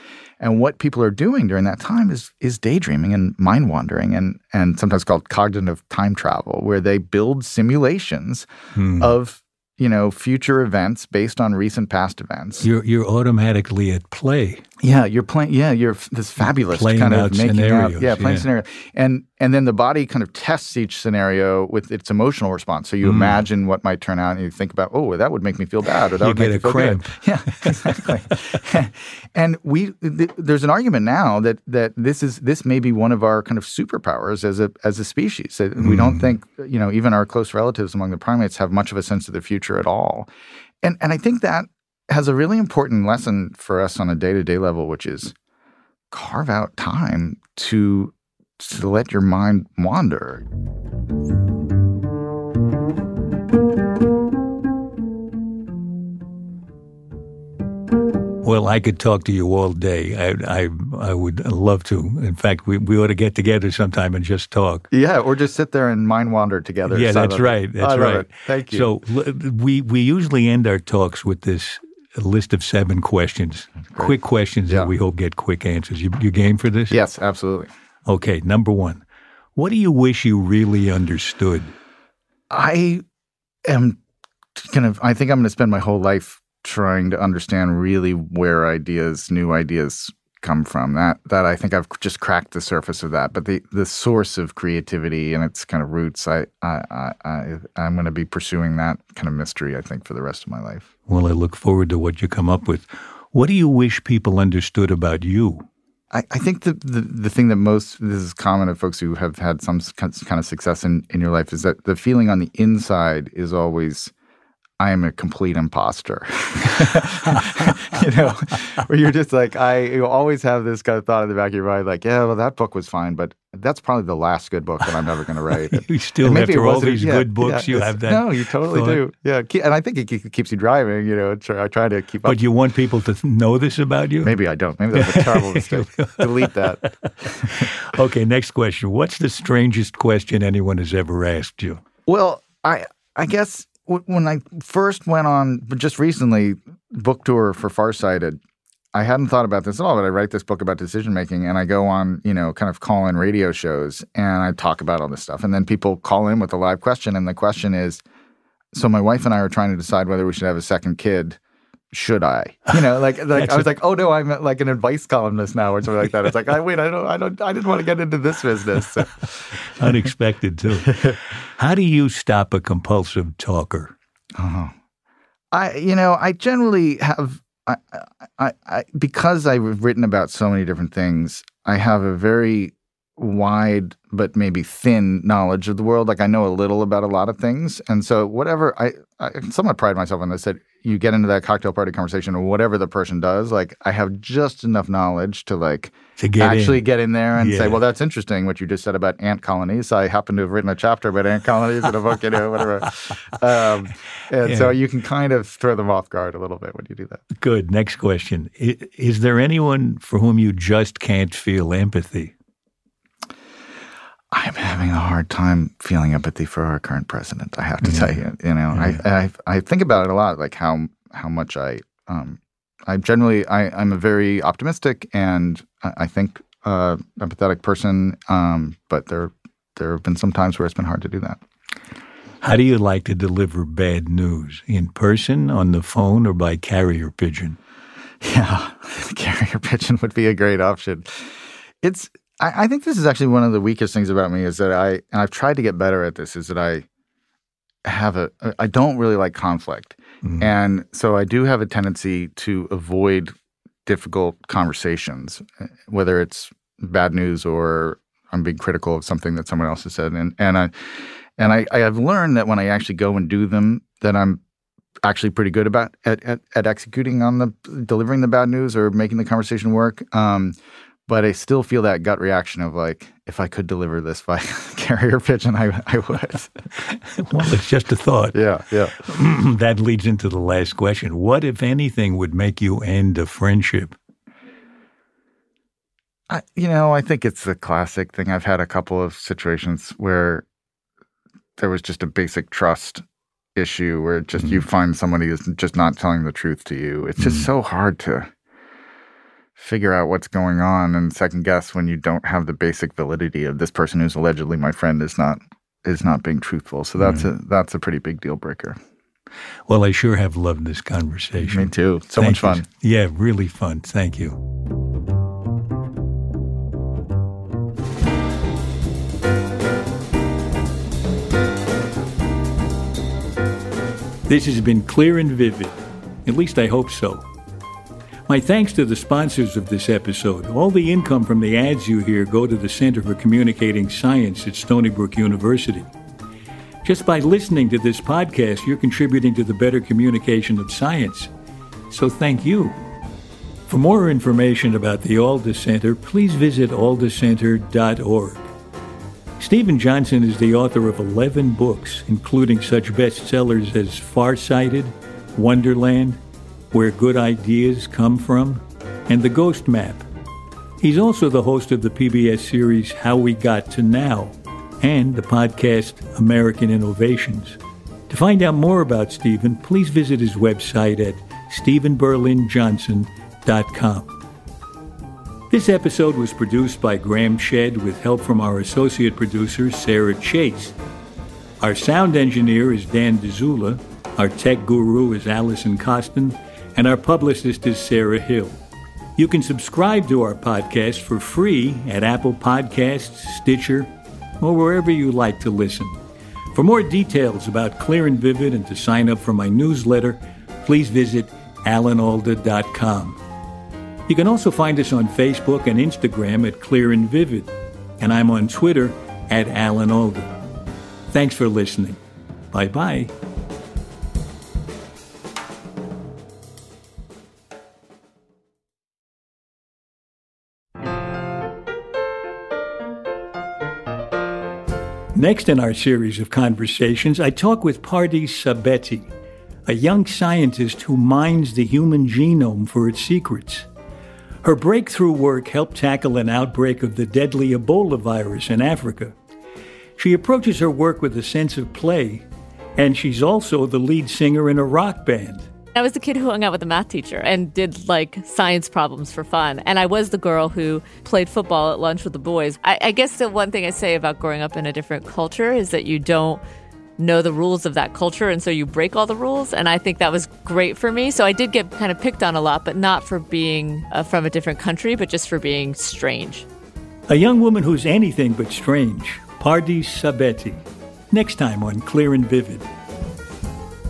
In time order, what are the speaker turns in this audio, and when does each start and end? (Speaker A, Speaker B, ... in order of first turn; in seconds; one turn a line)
Speaker A: 0.4-8.5
Speaker B: 8.7-9.1
Speaker A: 9.0-12.7
Speaker B: 12.6-14.6
Speaker A: 14.8-40.3
Speaker B: 16.4-18.5
Speaker B: 23.0-23.4
Speaker B: 26.2-28.0
Speaker B: 35.8-36.3
Speaker A: 40.8-45.3
Speaker A: 46.1-50.4
Speaker B: 58.4-64.9
Speaker A: 64.9-68.9
Speaker B: 66.9-77.0
Speaker A: 76.9-77.7
Speaker B: 78.0-79.0
Speaker B: 79.5-81.7
Speaker A: 82.5-83.0
Speaker A: 83.6-84.0
Speaker A: 84.5-100.9
Speaker B: 101.1-105.7
Speaker A: 106.1-114.1
Speaker A: 114.8-132.4
Speaker B: 125.7-129.0
Speaker B: 132.2-134.3
Speaker A: 134.2-137.7
Speaker B: 134.9-136.9
Speaker B: 137.4-141.8
Speaker A: 142.1-148.4
Speaker A: 148.9-158.0
Speaker A: 158.7-161.4
Speaker A: 161.9-169.9
Speaker B: 163.3-163.7
Speaker B: 169.7-173.9
Speaker A: 170.8-171.2
Speaker A: 174.3-174.7
Speaker A: 175.5-207.2
Speaker B: 196.2-197.8
Speaker B: 204.4-204.8
Speaker B: 207.3-212.3
Speaker A: 214.3-231.4
Speaker B: 217.8-218.1
Speaker B: 218.7-219.0
Speaker B: 232.4-237.6
Speaker A: 238.2-246.8
Speaker A: 247.8-253.3
Speaker B: 250.2-250.5
Speaker A: 253.8-264.4
Speaker A: 265.0-276.5
Speaker B: 276.9-278.4
Speaker A: 278.3-278.9
Speaker B: 279.0-283.9
Speaker A: 286.3-290.4
Speaker A: 291.6-293.0
Speaker A: 293.5-298.3
Speaker B: 297.2-297.5
Speaker A: 299.6-308.8
Speaker B: 307.0-307.3
Speaker B: 309.7-314.4
Speaker A: 311.4-312.6
Speaker B: 324.3-327.3
Speaker B: 328.3-335.9
Speaker B: 336.8-341.3
Speaker B: 341.9-342.8
Speaker B: 343.7-348.5
Speaker B: 349.4-356.2
Speaker B: 356.7-360.1
Speaker B: 360.8-367.6
Speaker B: 368.1-374.1
Speaker B: 375.5-380.8
Speaker B: 381.6-388.6
Speaker B: 389.1-396.0
Speaker B: 396.5-403.2
Speaker B: 404.1-410.3
Speaker B: 411.1-412.0
Speaker B: 412.5-413.1
Speaker B: 425.1-429.1
Speaker B: 429.7-433.7
Speaker B: 434.4-439.1
Speaker B: 440.0-442.2
Speaker B: 442.8-445.5
Speaker C: 445.7-456.4
Speaker C: 457.0-466.4
Speaker B: 467.1-472.6